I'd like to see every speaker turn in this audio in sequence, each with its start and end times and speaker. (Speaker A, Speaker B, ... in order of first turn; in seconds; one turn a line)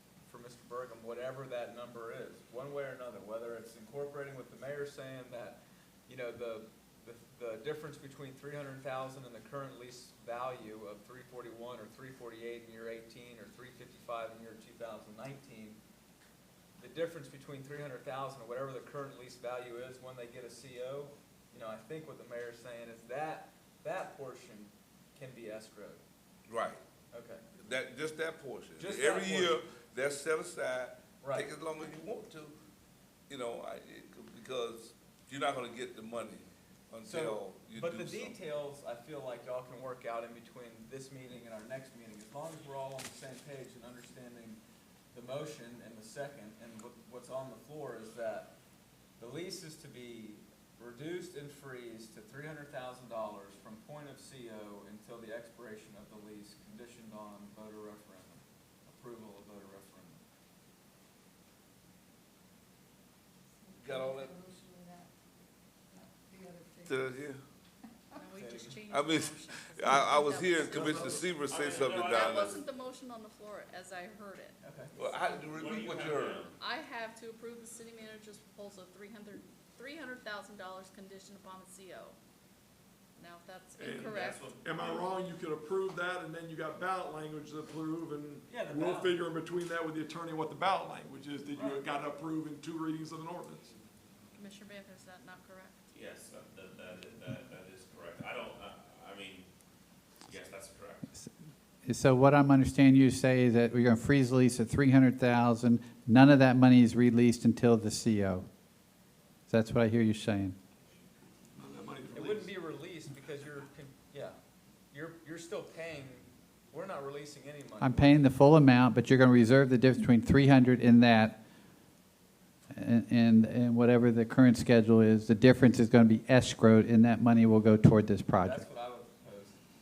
Speaker A: 0.3-15.8
Speaker A: 16.8-26.0
Speaker B: 26.5-26.8
Speaker A: 27.1-27.4
Speaker B: 27.6-32.6
Speaker A: 28.8-29.6
Speaker A: 31.2-31.5
Speaker B: 33.3-38.4
Speaker A: 37.0-44.6
Speaker A: 45.1-48.5
Speaker A: 49.2-60.2
Speaker C: 63.6-65.1
Speaker B: 63.8-64.4
Speaker C: 65.9-67.0
Speaker B: 66.8-67.4
Speaker C: 68.2-71.3
Speaker A: 68.3-68.8
Speaker B: 68.9-72.6
Speaker D: 71.5-72.6
Speaker C: 72.0-75.2
Speaker A: 74.6-74.9
Speaker B: 75.0-76.5
Speaker D: 75.5-76.6
Speaker C: 76.6-82.2
Speaker C: 83.2-84.4
Speaker E: 83.8-93.7
Speaker D: 83.9-85.0
Speaker A: 88.5-89.2
Speaker A: 91.5-91.8
Speaker C: 94.3-95.8
Speaker D: 95.9-99.5
Speaker D: 100.3-101.1
Speaker F: 101.8-108.5
Speaker F: 109.5-110.6
Speaker E: 111.6-112.5
Speaker A: 112.1-114.4
Speaker A: 114.9-118.3
Speaker F: 117.8-121.4
Speaker F: 122.7-128.7
Speaker A: 128.4-129.6